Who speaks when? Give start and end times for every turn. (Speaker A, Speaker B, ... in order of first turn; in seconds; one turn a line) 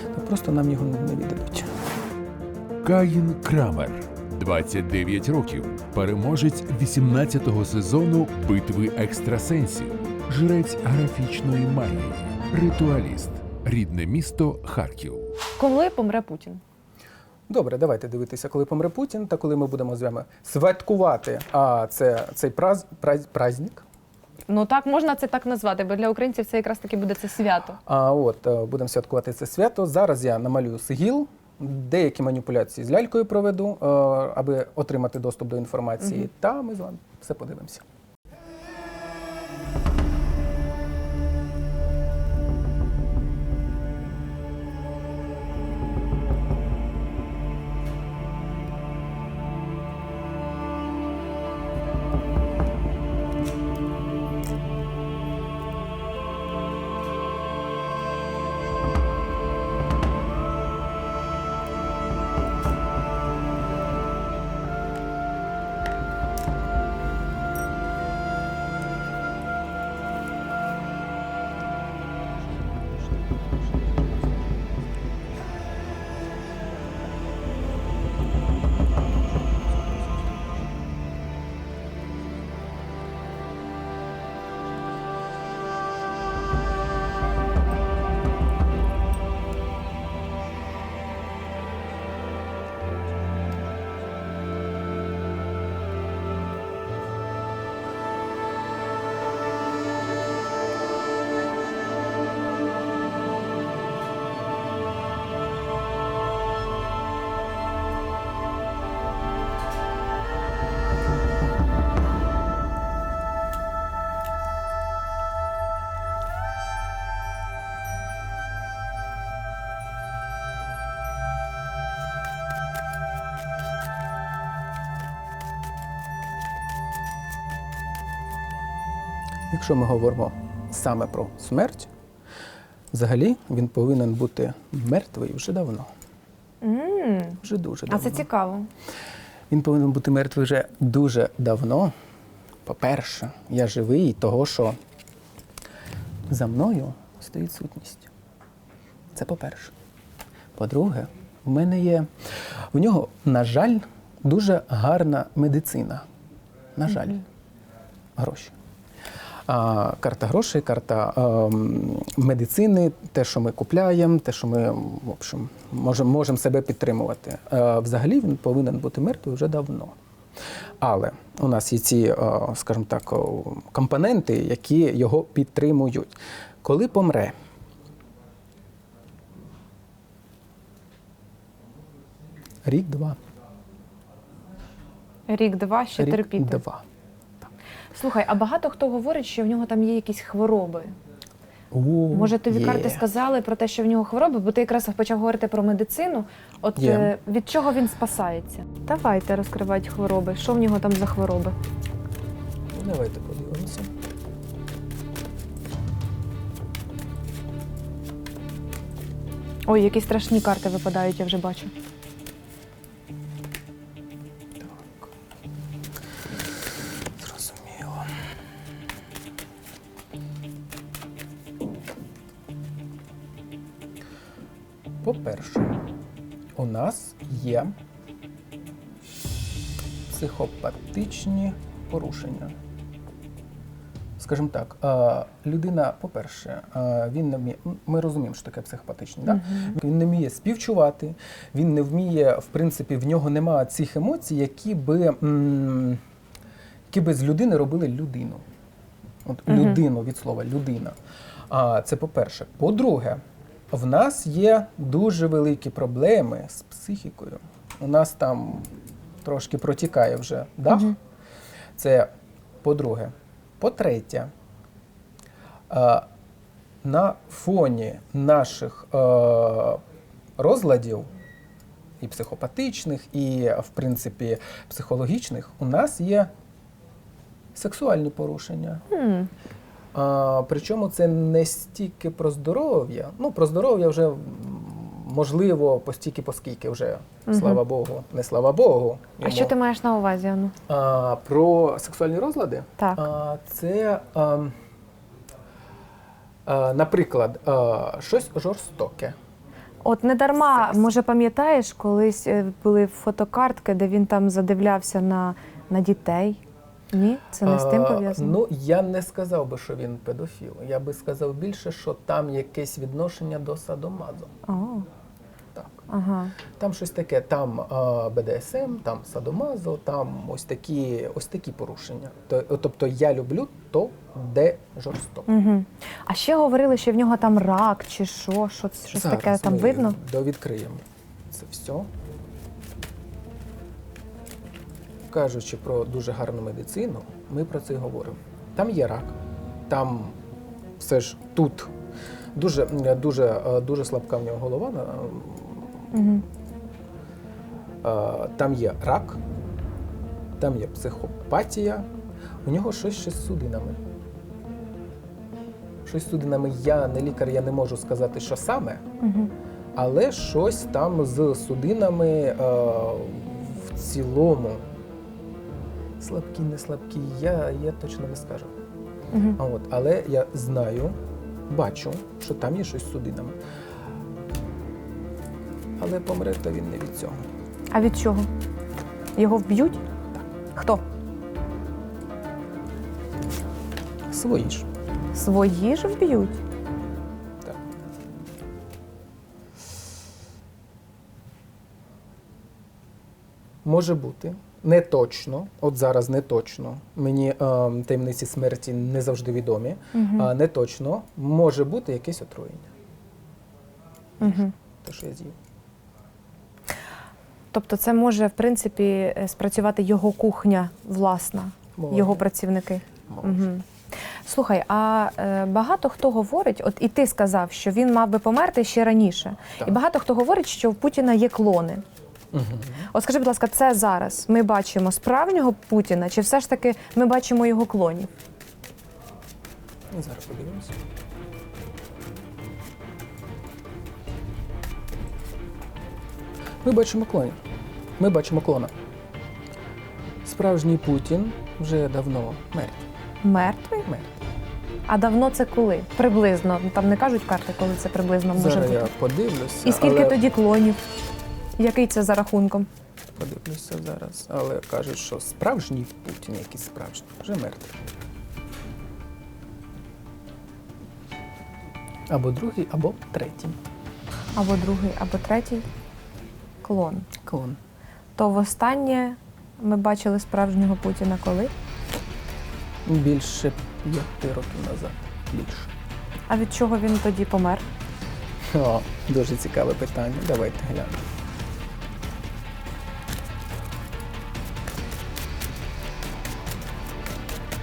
Speaker A: 0.1-1.7
Speaker B: 2.8-15.3
Speaker C: 15.6-16.6
Speaker A: 17.5-23.8
Speaker C: 24.5-27.8
Speaker A: 27.8-37.8
Speaker A: 129.5-131.9
Speaker A: 132.9-135.9
Speaker C: 136.6-138.7
Speaker A: 137.4-138.3
Speaker A: 139.5-141.9
Speaker A: 142.7-144.8
Speaker A: 146.3-148.1
Speaker A: 149.1-149.7
Speaker A: 150.5-152.1
Speaker A: 152.7-156.0
Speaker A: 156.8-157.2
Speaker A: 158.2-158.5
Speaker A: 159.5-169.9
Speaker A: 170.8-177.3
Speaker A: 182.7-183.2
Speaker C: 185.3-186.6
Speaker A: 186.0-186.8
Speaker C: 187.9-190.9
Speaker A: 191.7-193.0
Speaker C: 192.1-201.6
Speaker A: 196.8-197.1
Speaker A: 202.7-203.9
Speaker C: 209.7-211.7
Speaker A: 214.6-215.1
Speaker A: 217.2-218.1
Speaker A: 225.0-225.8
Speaker A: 226.6-227.7
Speaker A: 230.1-232.5
Speaker A: 234.2-246.0
Speaker C: 239.2-239.7
Speaker A: 246.9-248.4
Speaker A: 249.2-250.9
Speaker C: 249.5-249.8
Speaker A: 251.5-258.7
Speaker A: 259.2-261.0
Speaker C: 260.7-260.9
Speaker A: 261.8-262.1
Speaker A: 262.6-264.3
Speaker A: 265.7-266.1
Speaker A: 266.8-269.8
Speaker A: 270.4-271.1
Speaker A: 272.0-276.3
Speaker A: 277.5-278.8
Speaker C: 278.9-279.3
Speaker A: 279.9-289.5
Speaker C: 287.3-287.6
Speaker C: 289.2-290.5
Speaker A: 290.7-294.5
Speaker C: 292.8-293.0
Speaker A: 296.4-299.1
Speaker C: 299.8-306.4
Speaker A: 300.4-300.9
Speaker C: 306.9-308.4
Speaker A: 307.4-314.3
Speaker C: 314.4-314.9
Speaker A: 315.5-315.8
Speaker C: 315.9-316.4
Speaker A: 316.5-325.3
Speaker C: 325.3-330.0
Speaker A: 328.9-331.9
Speaker A: 335.1-339.1
Speaker A: 339.7-340.1
Speaker A: 340.8-341.7
Speaker A: 342.3-345.8
Speaker C: 345.9-346.2
Speaker A: 347.8-349.2
Speaker A: 350.4-351.9
Speaker A: 352.4-353.8
Speaker A: 355.9-358.8
Speaker C: 359.0-359.3
Speaker A: 359.8-364.6
Speaker A: 366.0-368.5
Speaker C: 369.1-369.4
Speaker A: 369.4-371.0
Speaker A: 371.5-373.3
Speaker A: 375.8-377.2
Speaker C: 377.7-378.3
Speaker C: 379.1-379.8
Speaker C: 380.5-380.8
Speaker A: 384.1-384.6
Speaker C: 385.1-386.4
Speaker A: 393.6-402.7
Speaker C: 399.9-400.3
Speaker A: 404.2-405.3
Speaker C: 404.2-404.5
Speaker C: 407.5-421.8
Speaker A: 411.8-412.2
Speaker A: 413.1-413.5
Speaker A: 422.3-422.9
Speaker C: 422.9-428.1
Speaker A: 429.9-430.7
Speaker A: 436.6-437.4
Speaker A: 438.0-438.7
Speaker A: 440.2-442.8
Speaker C: 443.2-443.8
Speaker A: 443.8-444.1
Speaker C: 444.9-448.9
Speaker A: 448.3-450.2
Speaker C: 449.6-450.8
Speaker C: 451.6-452.7
Speaker A: 453.1-457.7
Speaker A: 462.1-463.6
Speaker C: 464.3-465.7
Speaker C: 466.6-467.1
Speaker A: 467.2-467.6
Speaker C: 468.1-471.5
Speaker A: 472.9-475.7
Speaker C: 476.3-477.7
Speaker A: 478.4-481.0